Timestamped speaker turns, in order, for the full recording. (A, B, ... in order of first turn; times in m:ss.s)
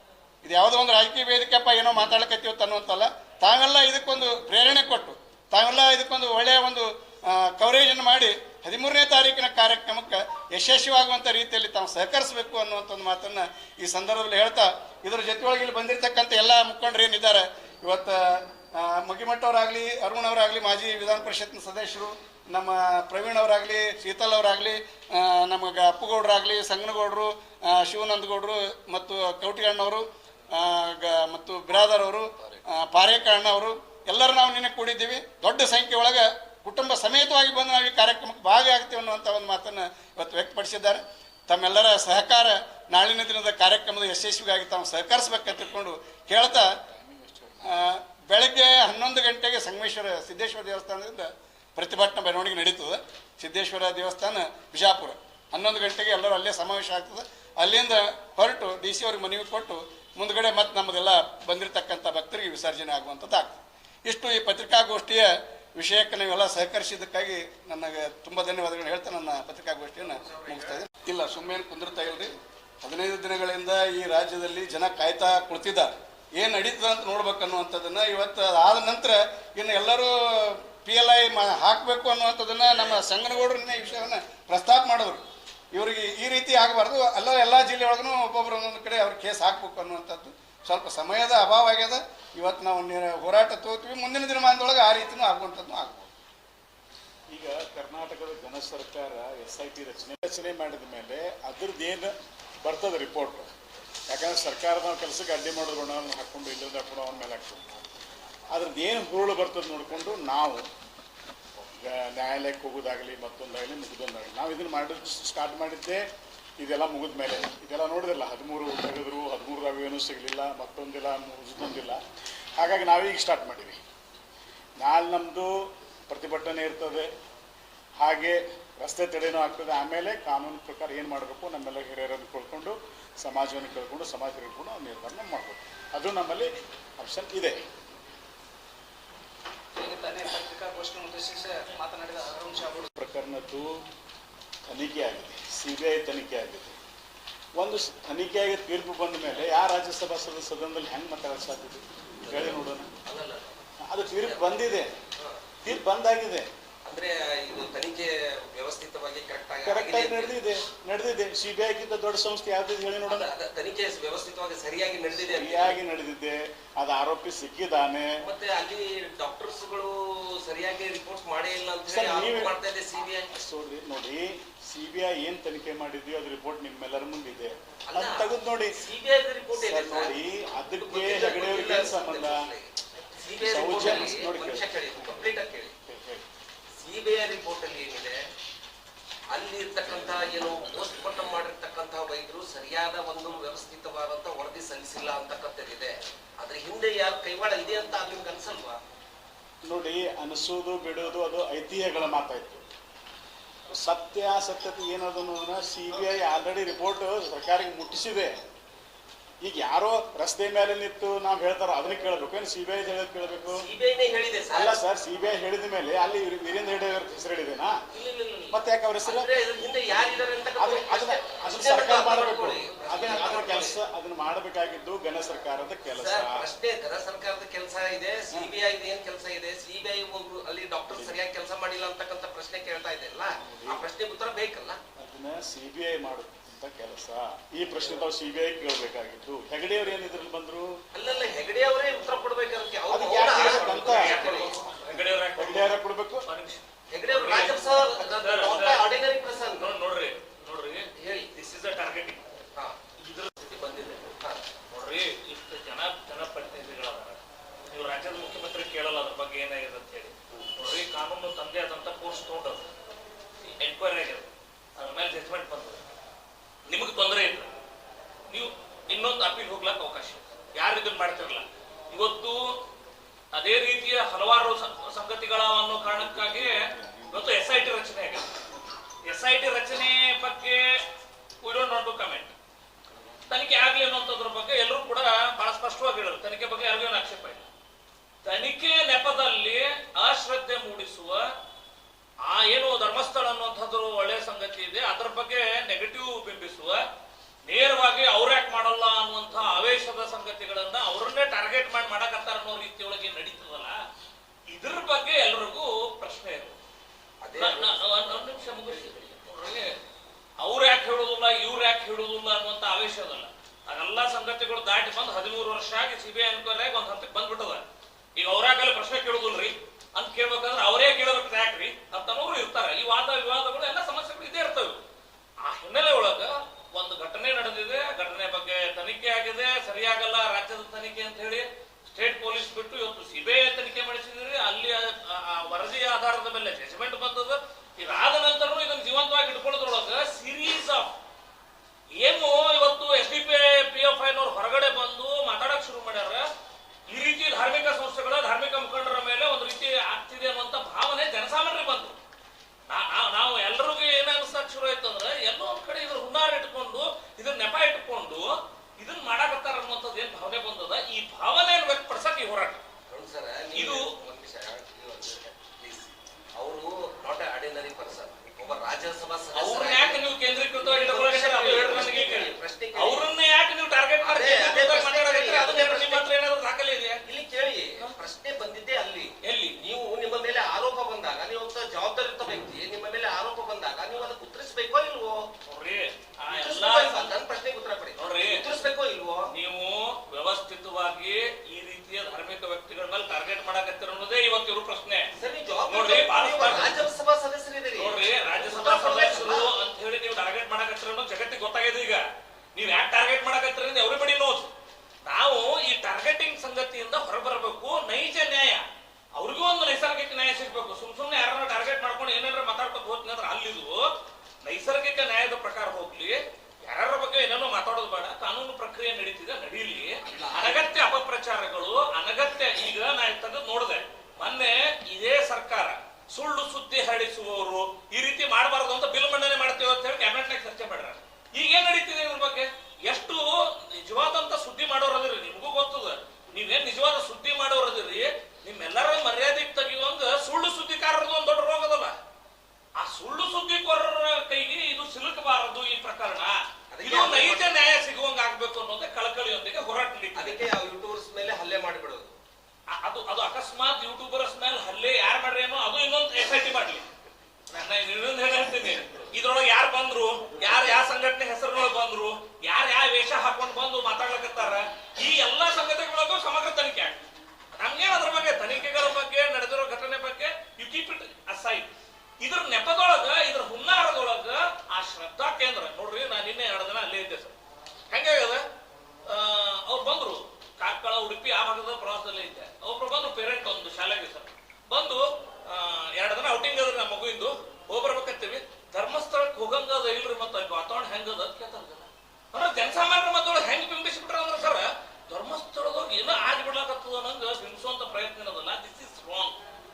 0:00.4-0:46.7 A
0:46.8-0:47.8 B
0:47.7-1:36.1 A
1:10.0-1:10.8 C
1:37.3-1:43.5 B
1:44.1-1:47.6 B
1:48.5-1:50.7 B
1:51.8-1:56.0 B
1:56.6-2:02.0 B
2:02.6-2:03.8 B
2:04.8-2:07.1 B
2:08.0-2:17.6 B
2:19.7-2:22.9 D
2:23.0-2:23.8 B
2:24.7-2:26.8 B
2:27.6-2:32.9 B
2:33.0-2:35.4 C
2:33.8-2:34.9 B
2:35.6-2:36.5 B
2:36.8-2:40.4 C
2:39.6-2:43.3 B
2:43.1-2:45.8 C
2:45.1-2:48.1 B
2:48.2-2:53.3 C
2:51.9-2:52.5 B
2:53.3-2:58.8 B
2:57.9-3:00.1 C
2:59.5-3:02.4 B
3:00.8-3:05.7 C
3:03.4-3:06.2 B
3:06.8-3:08.2 C
3:09.3-3:18.8 C
3:19.6-3:22.6 B
3:23.7-3:28.4 B
3:29.4-3:33.6 B
3:33.6-3:34.8 C
3:34.5-3:37.8 B
3:37.9-3:43.8 C
3:38.5-3:39.3 B
3:39.9-3:46.5 B
3:46.0-3:54.8 C
3:50.9-3:51.2 B
3:53.4-3:53.8 B
3:55.0-4:00.7 B
4:00.9-4:04.6 C
4:02.9-4:04.3 B
4:03.2-4:08.9 E
4:05.4-4:06.2 B
4:06.9-4:09.7 C
4:09.6-4:12.2 E
4:11.0-4:11.3 C
4:13.0-4:13.6 E
4:13.4-4:14.4 C
4:14.7-4:17.2 E
4:17.7-4:22.7 E
4:23.4-4:25.8 E
4:26.7-4:27.5 E
4:28.3-4:32.5 E
4:33.3-4:38.2 E
4:36.0-4:37.2 B
4:39.0-4:40.8 E
4:41.4-4:42.3 E
4:43.3-4:47.5 E
4:48.2-4:51.2 E
4:52.2-4:56.8 E
4:57.5-5:03.8 E
5:04.5-5:06.6 E
5:07.2-5:09.1 C
5:07.3-5:09.8 E
5:10.4-5:17.6 E
5:18.2-5:24.8 E
5:25.4-5:40.9 E
5:42.0-5:46.2 E
5:46.9-5:52.0 E
5:52.7-6:02.6 E
6:02.9-6:10.0 C
6:03.5-6:03.8 E
6:09.3-6:17.0 E
6:10.6-6:13.1 C
6:14.0-6:16.0 C
6:17.1-6:25.3 C
6:19.2-6:19.6 E
6:25.5-6:27.1 E
6:26.3-6:29.3 C
6:28.0-6:28.5 E
6:29.3-6:35.1 E
6:35.2-6:39.5 C
6:35.7-6:36.8 E
6:37.8-6:42.0 E
6:42.5-6:44.5 E
6:45.0-6:53.8 E
6:54.4-7:22.0 E
7:00.0-7:00.8 C
7:22.8-7:30.4 E
7:26.7-7:27.8 C
7:30.2-7:32.1 C
7:32.8-7:36.9 E
7:37.5-7:47.0 E
7:47.6-7:51.7 E
7:52.2-7:57.3 E
7:57.9-7:58.4 E
7:59.1-8:19.3 E